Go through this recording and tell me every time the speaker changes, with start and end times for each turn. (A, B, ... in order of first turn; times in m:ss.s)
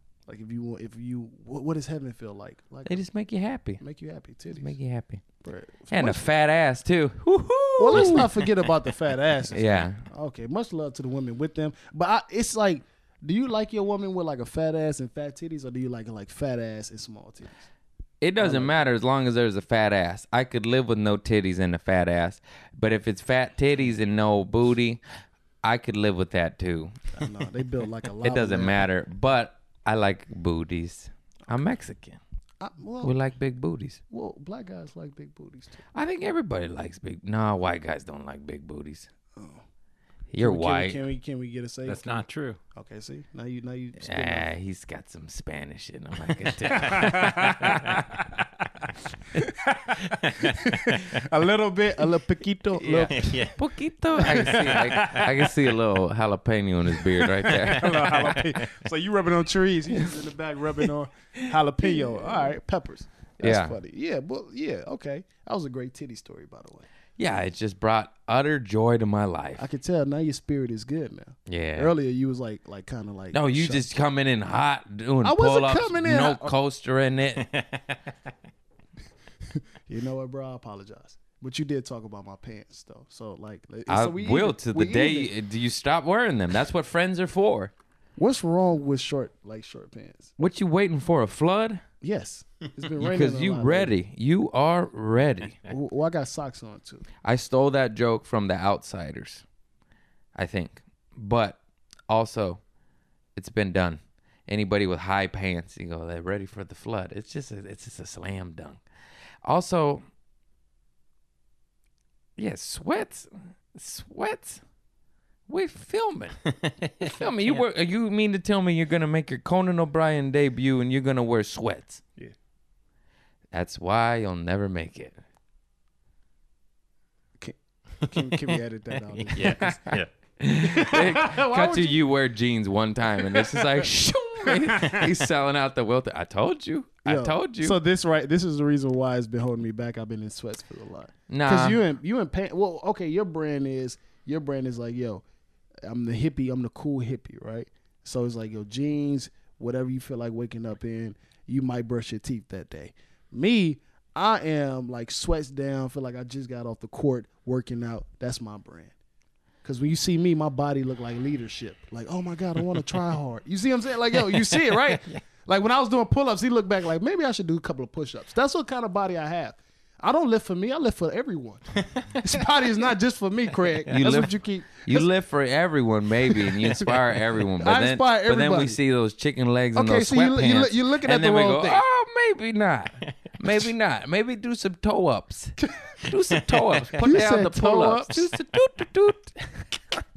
0:00.3-0:03.0 A
0:02.8-0:03.8 B
0:03.8-0:04.7 A
0:04.5-0:05.2 B
0:05.4-0:06.2 A
0:05.9-0:08.4 B
0:07.8-0:17.7 A
0:09.5-0:10.0 B
0:18.2-0:25.0 B
0:18.4-0:18.7 A
0:25.6-0:26.9 B
0:27.1-0:28.8 A
0:28.2-0:32.2 B
0:32.6-0:33.2 A
0:33.0-0:34.0 B
0:34.1-0:35.8 A
0:35.9-0:39.1 B
0:39.4-0:39.6 A
0:40.3-0:41.0 B
0:40.4-0:42.2 A
0:41.8-0:42.6 C
0:42.7-0:44.5 A
0:44.0-0:48.0 B
0:46.7-0:48.4 A
0:46.8-0:47.8 C
0:49.3-0:53.4 A
0:50.1-0:51.1 C
0:52.8-0:58.2 B
0:53.1-0:53.6 C
0:54.2-0:55.7 A
0:54.3-0:54.9 C
0:57.3-1:06.8 A
0:57.5-0:58.7 C
1:03.4-1:03.8 B
1:07.2-1:09.6 B
1:09.6-1:13.9 A
1:11.5-1:11.9 B
1:13.3-1:17.5 B
1:15.2-1:16.6 A
1:17.5-1:17.8 C
1:19.5-1:25.3 A
1:23.9-1:27.7 B
1:28.2-1:30.3 A
1:30.4-1:31.8 B
1:32.0-1:33.9 A
1:33.0-1:35.6 B
1:35.6-1:37.0 A
1:37.2-1:39.4 B
1:40.3-1:42.6 B
1:43.4-1:48.8 B
1:49.4-1:50.0 B
1:52.4-1:54.6 B
1:55.5-1:56.4 B
1:56.6-1:57.1 C
1:57.0-2:02.0 B
2:03.5-2:05.2 B
2:07.4-2:09.8 A
2:09.3-2:10.1 C
2:09.4-2:17.8 B
2:10.6-2:12.0 A
2:13.2-2:13.9 A
2:14.4-2:15.1 A
2:17.0-2:25.2 A
2:21.3-2:21.8 B
2:25.8-2:38.9 A
2:39.6-2:55.1 A
2:44.3-2:45.0 C
2:51.9-2:52.3 C
2:53.9-2:54.3 B
2:54.8-3:09.6 B
2:56.3-2:58.8 A
2:59.7-3:01.8 A
3:05.6-3:05.9 A
3:06.6-3:06.9 C
3:07.0-3:08.3 A